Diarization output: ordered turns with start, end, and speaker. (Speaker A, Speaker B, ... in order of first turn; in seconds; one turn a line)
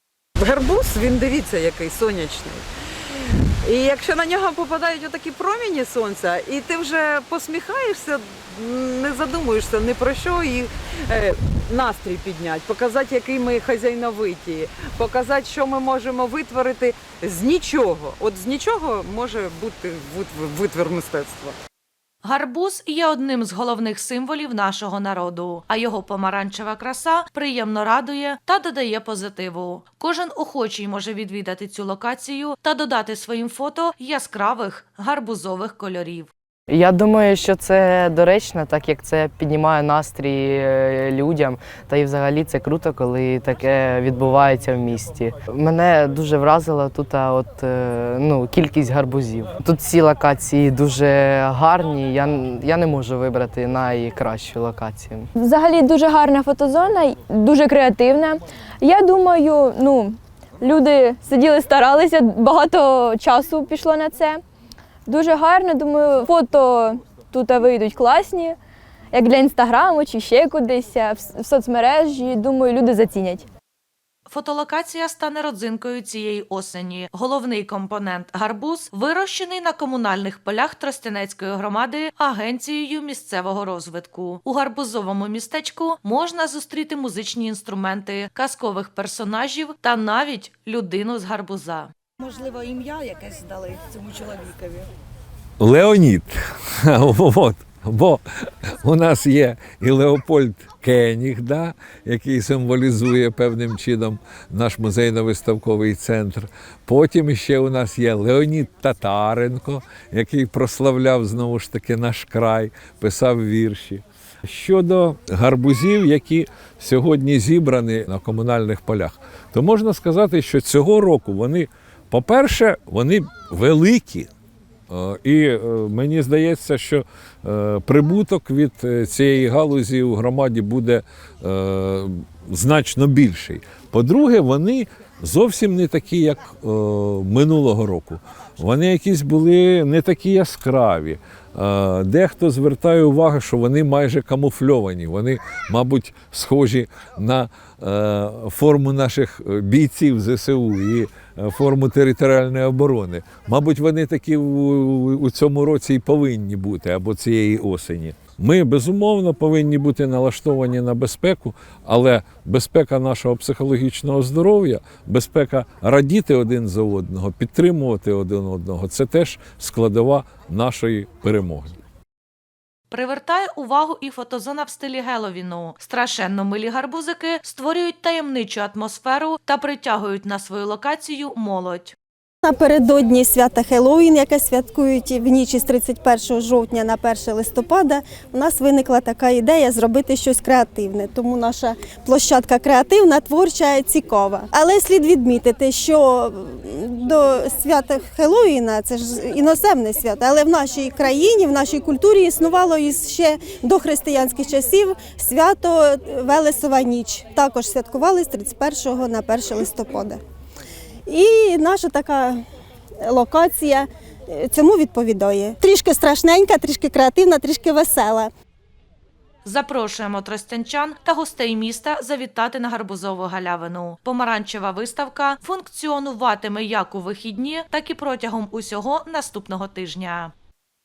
Speaker A: 0.4-2.6
Speaker A: 3.6-21.6
Speaker B: 22.2-36.3
Speaker C: 36.7-55.3
Speaker D: 55.4-64.4
Speaker D: 65.1-68.6
Speaker D: 69.1-73.5
Speaker B: 74.3-91.9
Speaker E: 92.2-94.9
Speaker F: 95.6-98.2
Speaker F: 98.8-124.3
Speaker F: 124.9-171.8
Speaker B: 172.9-181.9
Speaker G: 182.5-210.2
Speaker G: 211.4-212.2
Speaker G: 213.2-213.7
Speaker G: 214.7-218.2
Speaker B: 219.4-230.3